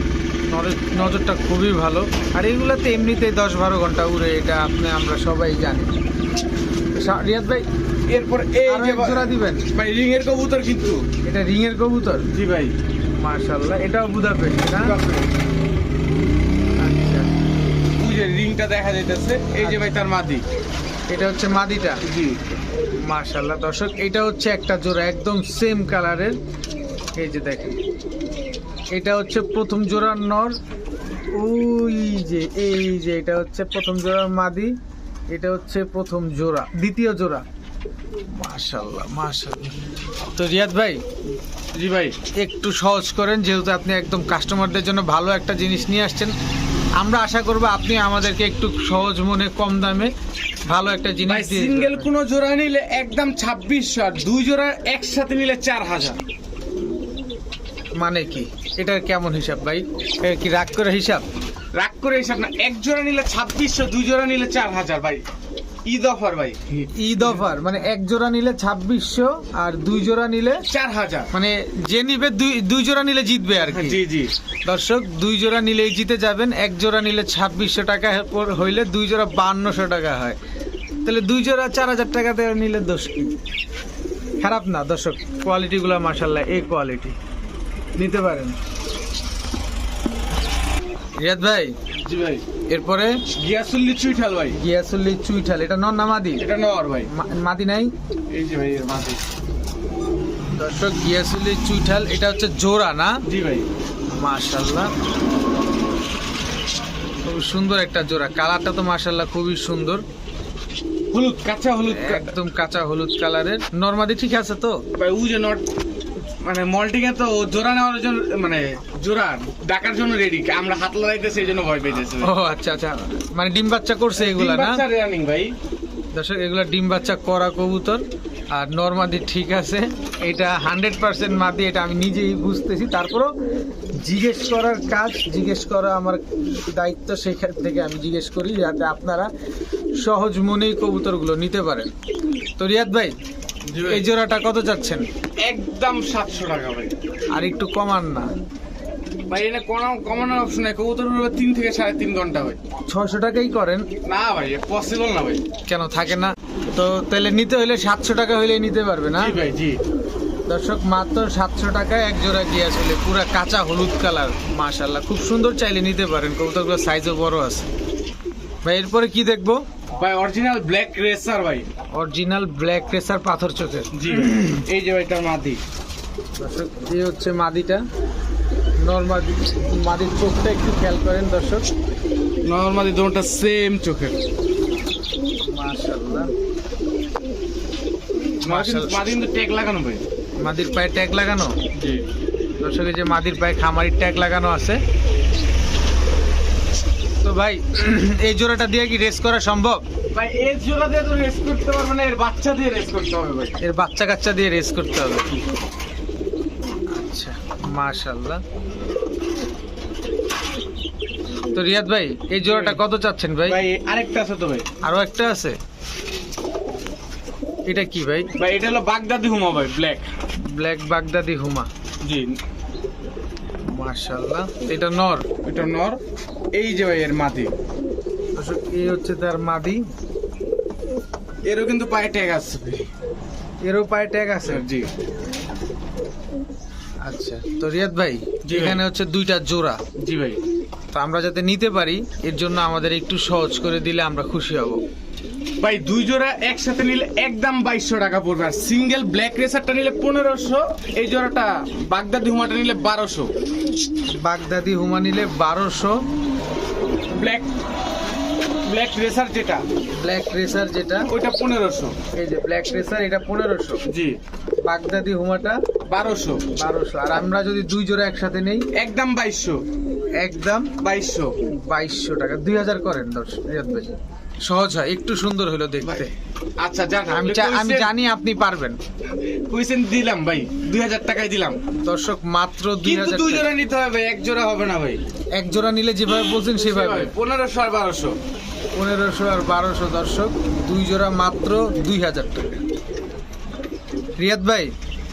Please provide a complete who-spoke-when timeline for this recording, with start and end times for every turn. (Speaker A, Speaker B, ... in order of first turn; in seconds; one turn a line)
Speaker A: 0.5-5.9
Speaker A: 6.9-7.7
Speaker B: 8.1-11.1
Speaker A: 8.7-9.7
Speaker A: 11.2-12.3
Speaker B: 12.3-12.7
Speaker A: 13.2-14.9
Speaker B: 14.7-15.3
Speaker A: 16.8-17.4
Speaker B: 18.0-20.4
Speaker A: 19.6-20.0
Speaker A: 21.1-22.0
Speaker B: 22.1-22.6
Speaker A: 23.0-26.4
Speaker A: 27.2-27.8
Speaker A: 28.9-30.6
Speaker A: 31.3-34.7
Speaker A: 35.3-37.4
Speaker A: 38.4-39.8
Speaker A: 40.4-41.0
Speaker B: 41.7-42.2
Speaker A: 42.4-46.3
Speaker A: 47.0-50.1
Speaker A: 50.7-52.1
Speaker B: 51.2-56.2
Speaker A: 58.0-61.2
Speaker B: 61.7-65.2
Speaker B: 65.8-67.8
Speaker A: 66.9-70.7
Speaker B: 70.7-71.3
Speaker A: 71.3-74.0
Speaker B: 73.7-74.3
Speaker A: 74.7-80.4
Speaker A: 81.0-83.4
Speaker A: 84.4-87.2
Speaker A: 88.0-88.5
Speaker A: 91.2-91.8
Speaker B: 92.0-92.4
Speaker A: 92.7-93.2
Speaker B: 93.3-94.6
Speaker A: 94.6-96.5
Speaker B: 96.4-97.1
Speaker A: 97.1-97.9
Speaker B: 98.3-99.2
Speaker A: 100.5-103.2
Speaker B: 103.2-103.7
Speaker A: 104.1-104.9
Speaker A: 107.2-110.0
Speaker B: 111.1-112.3
Speaker A: 111.9-114.8
Speaker B: 114.9-115.6
Speaker B: 116.4-122.3
Speaker A: 121.9-124.8
Speaker B: 124.2-125.5
Speaker A: 126.1-133.3
Speaker A: 134.0-139.3
Speaker A: 140.0-141.9
Speaker A: 142.6-143.1
Speaker B: 143.7-144.0
Speaker A: 143.8-145.0
Speaker B: 145.4-146.9
Speaker A: 147.3-148.3
Speaker B: 149.3-152.6
Speaker A: 152.9-153.8
Speaker B: 154.0-155.4
Speaker A: 155.7-159.4
Speaker B: 159.2-159.8
Speaker A: 160.5-167.7
Speaker A: 168.6-169.6
Speaker B: 169.9-171.7
Speaker A: 171.9-174.6
Speaker B: 173.9-175.6
Speaker A: 176.4-177.8
Speaker A: 178.8-181.7
Speaker B: 182.4-184.2
Speaker A: 185.4-186.3
Speaker B: 188.4-190.0
Speaker A: 188.4-189.0
Speaker A: 190.4-191.6
Speaker B: 191.7-192.0
Speaker A: 192.6-194.8
Speaker A: 197.2-199.8
Speaker B: 200.1-203.6
Speaker A: 203.6-205.4
Speaker A: 206.9-208.4
Speaker A: 211.5-213.6
Speaker B: 212.4-212.8
Speaker B: 213.4-214.7
Speaker A: 214.8-215.6
Speaker A: 217.7-218.3
Speaker B: 218.4-220.1
Speaker A: 220.4-221.7
Speaker B: 222.0-222.4
Speaker A: 223.7-225.3
Speaker B: 225.4-226.0
Speaker B: 226.5-227.5
Speaker A: 228.4-229.8
Speaker B: 231.4-232.9
Speaker A: 233.6-234.6
Speaker B: 234.4-234.9
Speaker A: 237.0-239.8
Speaker B: 238.4-238.8
Speaker B: 240.0-240.4
Speaker A: 240.9-244.8
Speaker B: 245.6-253.3
Speaker A: 254.1-256.0
Speaker B: 257.1-257.5
Speaker B: 258.6-259.6
Speaker A: 259.9-261.1
Speaker B: 261.1-261.9
Speaker A: 262.1-263.8
Speaker B: 263.9-264.2
Speaker A: 264.6-265.6
Speaker B: 265.9-266.4
Speaker A: 266.6-268.7
Speaker B: 268.7-269.6
Speaker A: 270.2-270.7
Speaker B: 270.8-271.3
Speaker A: 271.5-276.1
Speaker B: 275.8-276.1
Speaker B: 276.6-277.9
Speaker A: 277.1-278.8
Speaker B: 279.5-281.6
Speaker A: 281.8-283.5
Speaker B: 282.8-285.0
Speaker A: 285.4-287.1
Speaker B: 286.4-288.2
Speaker A: 288.7-292.5
Speaker A: 294.2-294.7